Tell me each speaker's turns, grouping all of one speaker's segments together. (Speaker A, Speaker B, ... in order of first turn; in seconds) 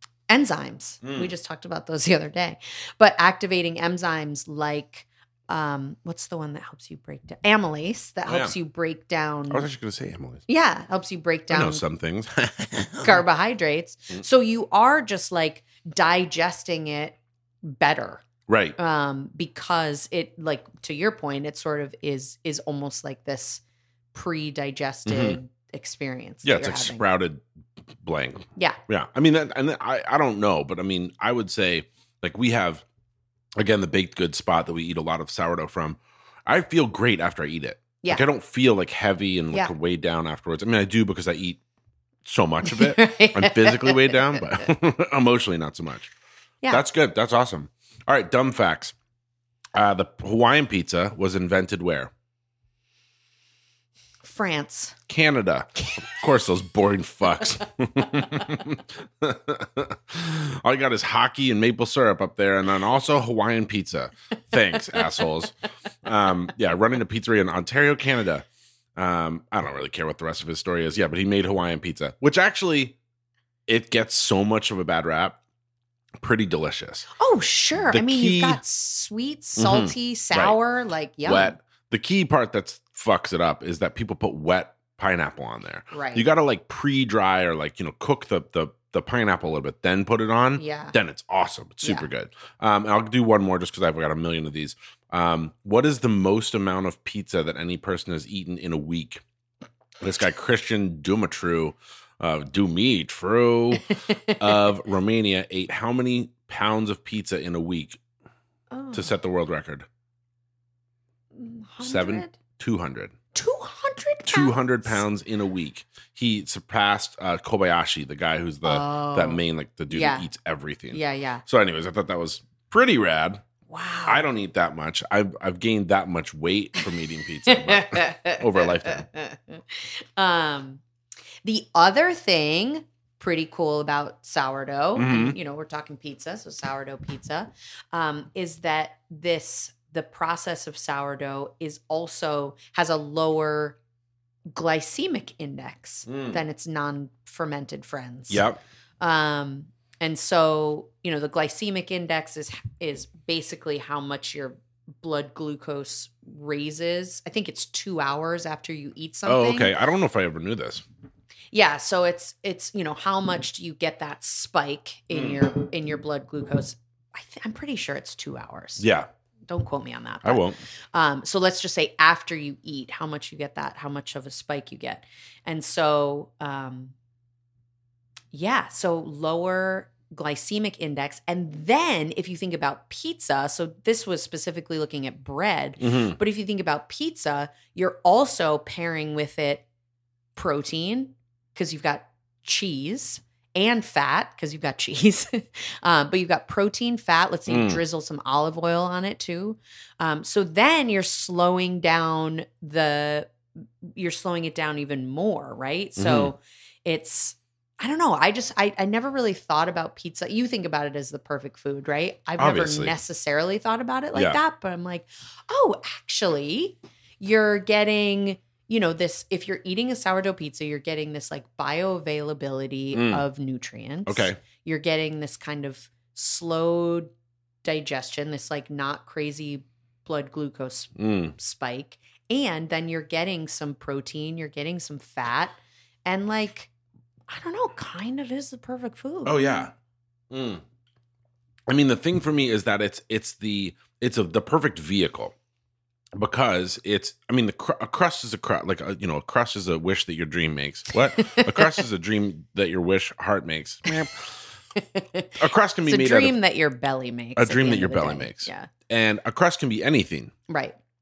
Speaker A: 0.3-9.7, 10.5-11.8, 13.0-18.2, 18.8-23.6, 24.1-27.1, 42.6-44.4, 54.2-55.0, 77.2-81.5, 85.9-86.2, 90.6-90.9, 91.8-92.1, 104.0-104.4, 108.7-109.1, 111.3-112.4, 113.3-115.0, 118.6-120.3, 120.9-121.4, 123.7-124.3, 127.5-130.8, 131.4-143.8, 144.5-148.4, 149.0-159.7, 161.5-168.8, 169.5-176.9, 178.3-189.7, 190.3-227.1, 227.6-236.7, 237.3-239.6, 251.1-251.8, 254.7-258.7, 260.5-260.8
Speaker B: 1.0-1.3, 8.3-8.5, 9.5-10.4, 11.5-13.2, 18.5-18.8, 25.1-25.4, 26.4-27.4, 28.0-32.8, 33.5-41.6, 42.2-46.1, 46.7-48.9, 49.7-52.1, 55.1-73.0, 73.7-75.4, 76.2-77.1, 77.8-78.6, 79.6-80.6, 81.2-99.2, 100.0-108.0, 108.9-109.8, 111.8-113.1, 114.2-123.4, 124.1-129.1, 134.9-135.3, 146.1-146.4, 148.3-148.6, 159.2-160.8, 165.1-165.4, 168.8-169.1, 170.2-170.6, 185.8-186.2, 197.5-197.8, 206.0-206.3, 212.4-212.9, 214.1-214.4, 222.9-223.2, 224.1-224.4, 230.9-231.3, 239.2-239.7, 240.3-240.6, 241.7-245.3, 246.2-254.3, 255.4-256.4, 257.4-260.3